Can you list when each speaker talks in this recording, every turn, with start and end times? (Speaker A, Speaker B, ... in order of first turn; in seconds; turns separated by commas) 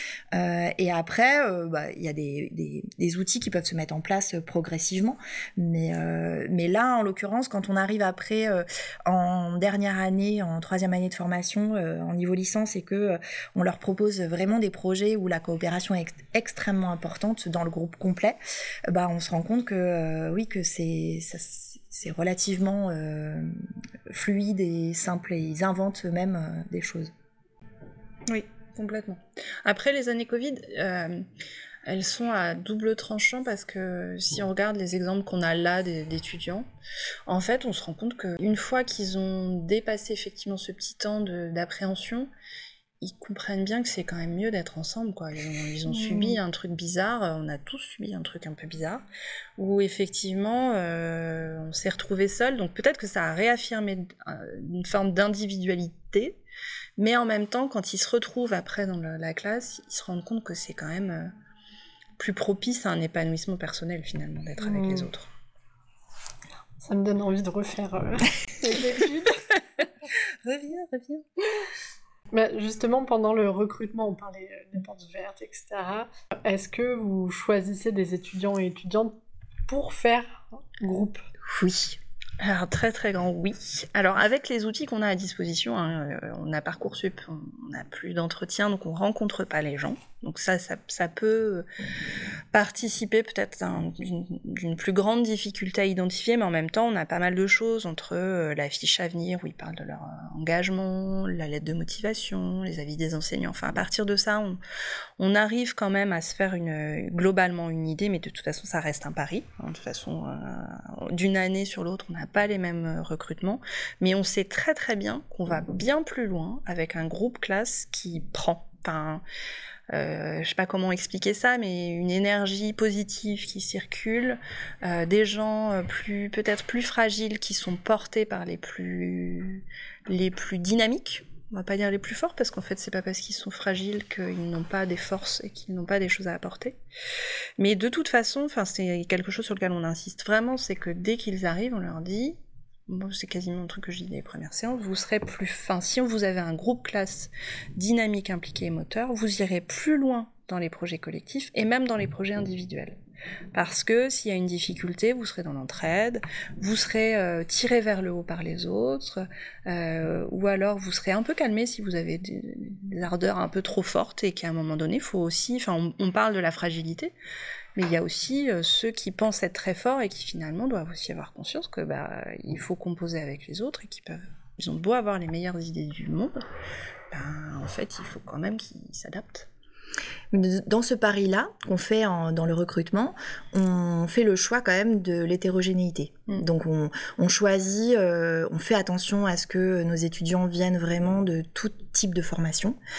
Speaker A: 0.3-18.4, Speaker A: 18.9-27.1, Speaker B: 28.3-31.2, Speaker B: 31.8-36.7, Speaker B: 37.3-42.3, Speaker B: 43.0-49.0, Speaker C: 45.9-46.4, Speaker B: 49.6-56.4, Speaker B: 57.0-61.3, Speaker B: 62.2-65.3, Speaker C: 64.6-65.1, Speaker C: 66.8-69.4, Speaker B: 70.4-71.2, Speaker C: 72.3-79.2, Speaker C: 79.7-81.2, Speaker A: 81.5-82.0, Speaker B: 82.4-91.7, Speaker B: 92.5-104.6, Speaker B: 105.2-119.2, Speaker B: 119.9-136.8, Speaker B: 137.6-142.4, Speaker B: 142.9-153.0, Speaker B: 153.5-167.1, Speaker B: 167.8-176.4, Speaker B: 177.1-179.5, Speaker A: 180.3-192.8